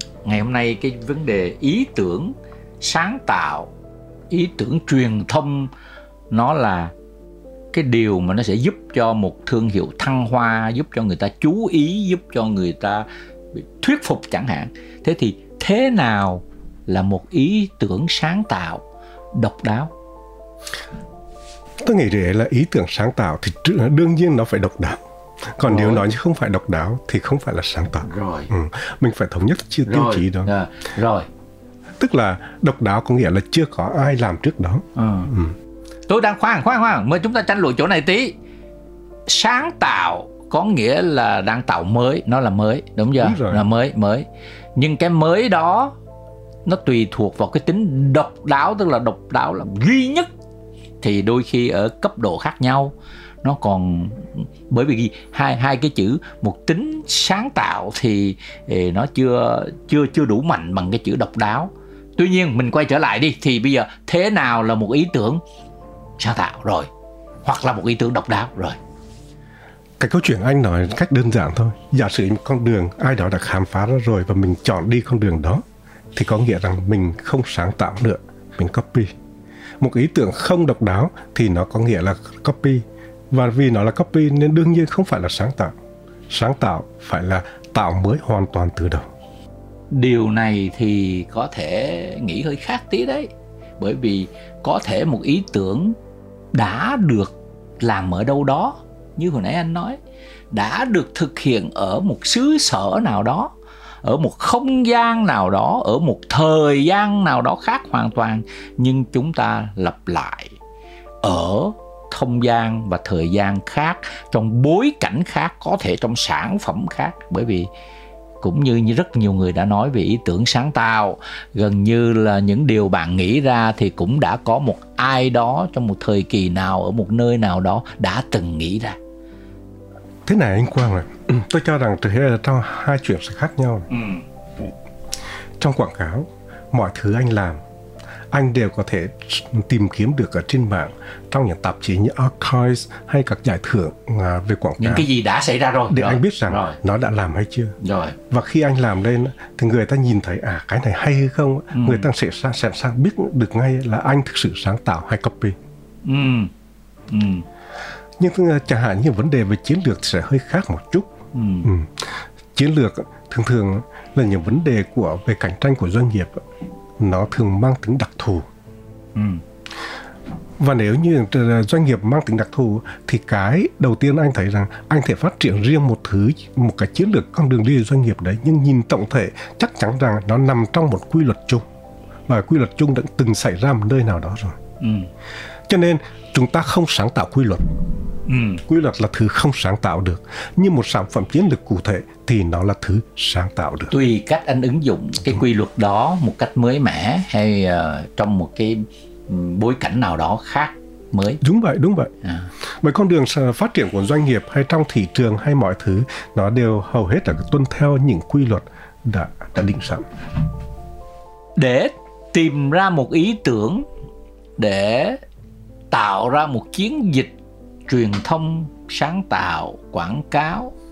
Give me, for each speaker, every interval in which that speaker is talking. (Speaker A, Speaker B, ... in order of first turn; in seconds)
Speaker A: 0.2-3.7, 4.3-5.7, 6.3-6.9, 7.7-13.1, 13.8-18.8, 19.3-19.9, 25.7-26.0, 28.0-28.5, 29.9-31.3, 35.0-35.3, 36.1-38.4, 39.3-45.9, 46.6-50.3, 51.0-65.4, 66.2-66.9, 67.4-68.8, 89.9-93.3, 93.8-95.9, 96.5-100.0, 100.5-103.5, 104.0-110.5, 111.2-117.7, 118.4-129.0, 133.9-134.2, 144.8-146.8, 147.8-148.2, 151.7-152.1, 156.0-156.5, 157.1-157.5, 161.3-161.7, 169.2-169.4, 184.8-185.1, 188.3-188.6, 193.9-201.4, 211.6-213.8, 214.6-215.2, 215.9-217.3, 217.9-220.7
Speaker B: 21.8-25.0, 25.6-30.5, 32.0-35.5, 43.2-43.6, 70.0-79.1, 79.8-85.7, 86.3-89.1, 130.2-133.9, 135.6-137.6, 138.3-145.1, 145.9-147.8, 148.3-155.6, 158.2-161.1, 161.6-166.4, 167.0-168.5, 170.6-181.6, 182.3-184.6, 185.7-187.7, 188.7-193.9, 201.4-202.1, 202.8-210.0